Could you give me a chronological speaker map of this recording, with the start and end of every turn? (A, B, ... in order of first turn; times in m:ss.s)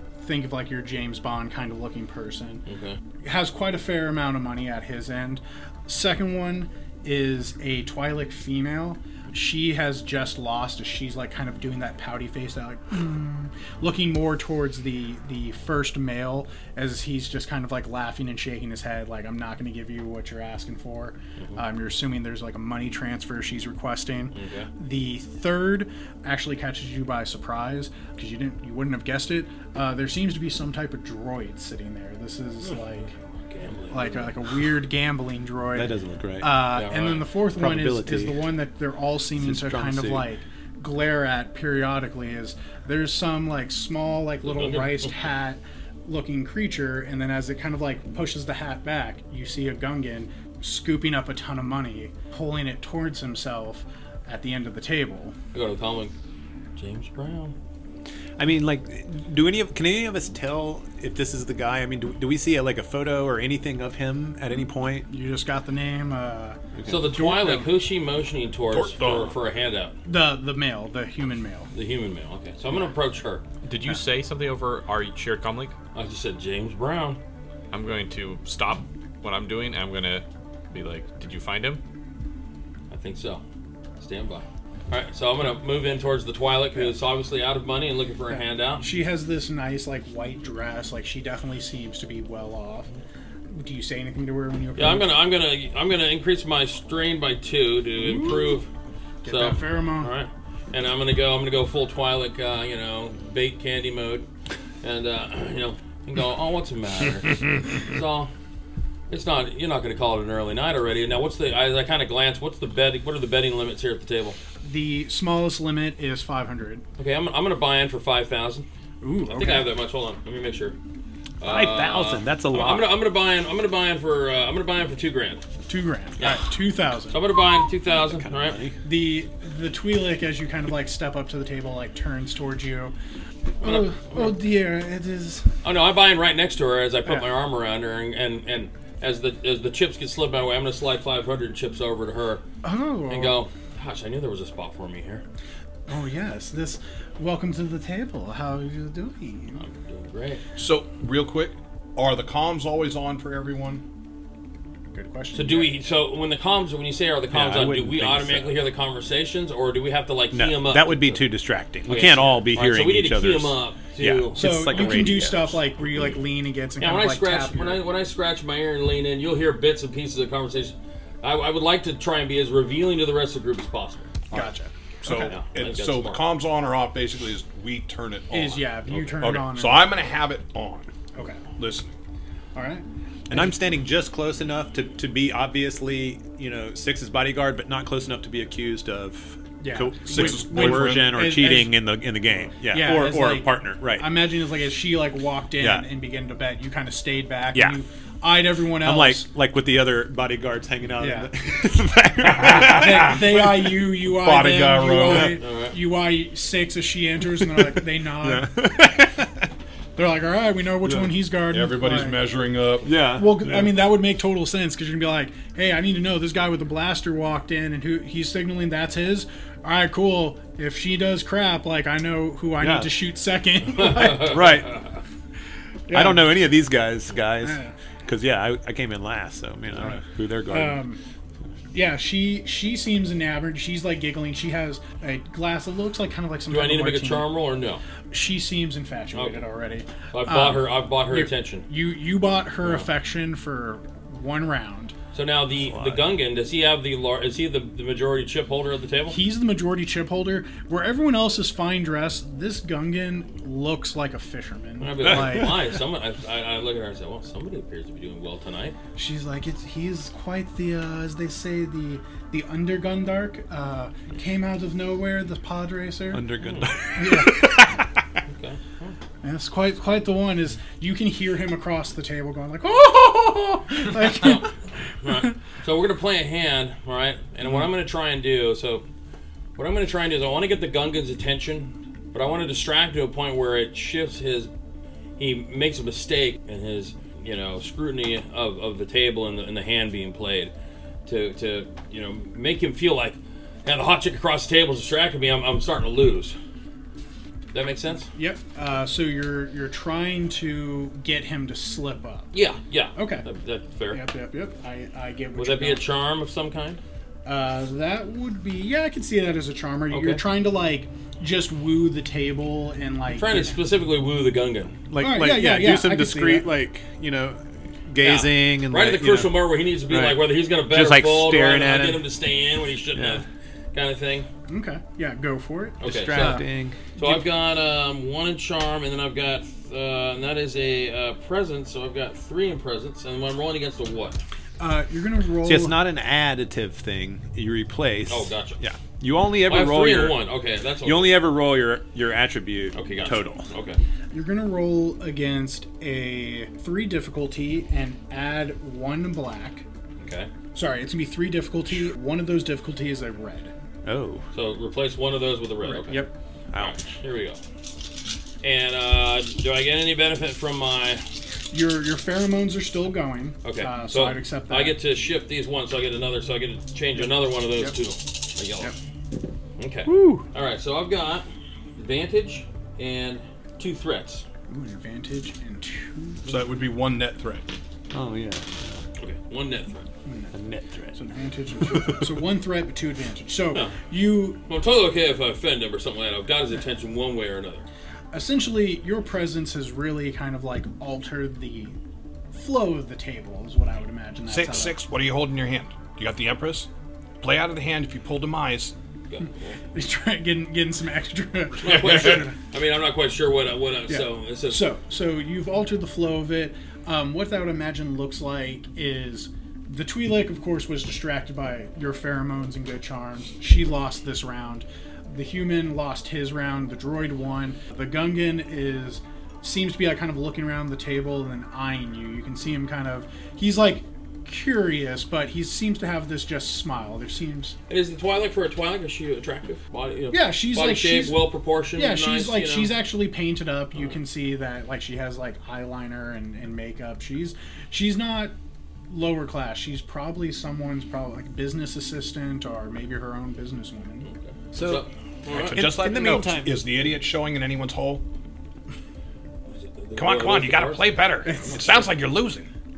0:00.2-0:02.6 A
0:02.7-0:03.0 B
0:03.2-0:33.1 A
0:24.4-0:24.7 B
0:32.7-0:34.4 B
0:33.9-0:55.4 A
0:35.8-0:36.7 C
0:36.7-0:37.3 B
0:37.6-0:38.4 C
0:39.4-0:40.3 C
0:44.4-0:45.1 B
0:55.5-0:56.1 B
0:56.8-0:57.5 B
0:58.4-1:05.1 C
1:05.1-1:07.7 A
1:06.8-1:07.1 C
1:06.9-1:10.0 B
1:08.7-1:09.4 D
1:10.0-1:11.7 A
1:11.7-1:13.4 B
1:13.6-1:15.8 E
1:15.9-1:17.2 B
1:17.7-1:21.8 E
1:22.9-1:23.4 B
1:24.0-1:28.8 B
1:28.3-1:32.9 A
1:33.5-1:35.1 A
1:34.8-1:38.7 B
1:38.0-1:38.6 A
1:39.2-1:40.1 A
1:39.3-1:44.2 B
1:44.8-1:48.3 B
1:49.1-1:54.4 B
1:54.6-1:56.8 A
1:57.0-1:58.7 B
1:59.0-1:59.7 A
1:59.3-2:00.8 B
2:01.4-2:05.4 B
2:01.4-2:03.0 C
2:05.7-2:07.2 A
2:06.2-2:06.5 B
2:07.1-2:08.6 B
2:07.9-2:08.8 C
2:08.8-2:12.9 A
2:13.6-2:15.5 A
2:13.6-2:14.4 B
2:15.6-2:22.4 B
2:22.6-2:23.4 A
2:23.1-2:25.2 B
2:25.9-2:29.6 A
2:29.6-2:30.4 B
2:30.6-2:33.8 D
2:34.9-2:35.7 A
2:35.3-2:41.2 B
2:37.3-2:38.6 C
2:40.3-2:45.6 C
2:41.9-2:45.2 B
2:44.4-2:47.8 A
2:46.8-2:54.1 B
2:54.3-2:55.4 A
2:55.0-3:00.9 D
2:55.3-2:56.2 B
2:58.3-2:59.9 A
3:01.2-3:01.4 A
3:01.6-3:01.9 D
3:02.6-3:02.8 A
3:03.3-3:14.2 C
3:09.6-3:11.8 A
3:10.1-3:11.2 D
3:12.6-3:19.3 A
3:15.6-3:15.9 C
3:17.5-3:17.8 C
3:18.8-3:23.4 C
3:21.0-3:21.3 A
3:22.2-3:25.4 D
3:22.4-3:29.0 A
3:25.4-3:25.8 B
3:27.4-3:29.4 C
3:30.0-3:32.3 A
3:30.8-3:31.1 C
3:31.5-3:32.9 D
3:32.8-3:33.8 C
3:33.1-3:44.4 A
3:42.6-3:43.0 C
3:44.0-3:44.8 C
3:45.9-3:46.4 A
3:45.9-3:50.8 C
3:47.4-3:47.7 A
3:49.8-3:51.0 A
3:51.7-3:57.3 A
3:56.5-3:57.8 B
3:58.1-4:05.0 A
3:59.1-3:59.4 B
4:00.1-4:01.7 B
4:05.1-4:09.2 B
4:05.7-4:06.0 C
4:09.1-4:15.6 A
4:14.8-4:18.8 B
4:19.0-4:26.3 A
4:26.1-4:27.9 C
4:26.4-4:26.7 B
4:27.0-4:27.7 A
4:28.3-4:29.0 B
4:29.2-4:34.5 A
4:33.9-4:34.5 B
4:35.0-4:38.8 B
4:39.6-4:44.5 B
4:45.2-4:50.5 B
4:51.1-4:56.4 B
4:57.5-4:58.1 B
4:58.1-5:02.3 A
5:02.3-5:04.0 B
5:03.0-5:03.2 A
5:03.9-5:05.8 A
5:05.4-5:06.8 B
5:07.2-5:13.6 A
5:09.9-5:10.2 B
5:13.2-5:14.8 B
5:14.9-5:19.4 C
5:15.0-5:16.5 A
5:18.0-5:24.3 B
5:19.9-5:22.1 C
5:22.9-5:23.2 C
5:24.5-5:26.4 A
5:25.8-5:26.4 B
5:25.8-5:27.1 C
5:27.0-5:34.2 B
5:34.6-5:35.8 A
5:35.4-5:40.2 C
5:38.1-5:38.6 B
5:39.5-5:41.2 B
5:40.8-5:43.5 C
5:42.8-5:43.8 B
5:44.1-5:49.7 A
5:50.0-5:50.3 B
5:50.5-5:53.5 A
5:53.8-5:54.2 C
5:54.3-5:57.4 B
5:55.6-5:56.1 A
5:56.5-5:56.8 C
5:58.4-6:01.0 B
6:01.5-6:04.8 A
6:03.4-6:08.7 B
6:07.0-6:07.8 A
6:09.6-6:11.3 B
6:09.9-6:10.3 C
6:11.8-6:14.2 B
6:14.5-6:16.4 A
6:16.2-6:17.5 D
6:17.9-6:18.8 C
6:19.0-6:19.9 B
6:20.0-6:20.3 A
6:20.3-6:21.0 C
6:20.9-6:24.4 A
6:21.6-6:22.1 C
6:24.5-6:27.7 B
6:28.1-6:31.8 A
6:32.3-6:34.8 A
6:34.3-6:36.7 D
6:37.2-6:38.7 D
6:39.1-6:39.6 B
6:39.7-6:42.4 A
6:41.6-6:44.6 B
6:43.9-7:07.6 A
7:07.7-7:12.7 B
7:10.1-7:11.2 A
7:11.8-7:18.4 A
7:18.9-7:24.1 A
7:24.1-7:25.7 B
7:24.5-7:26.7 C
7:25.3-7:28.0 D
7:29.5-7:31.8 B
7:30.0-7:32.5 D
7:31.3-7:31.6 A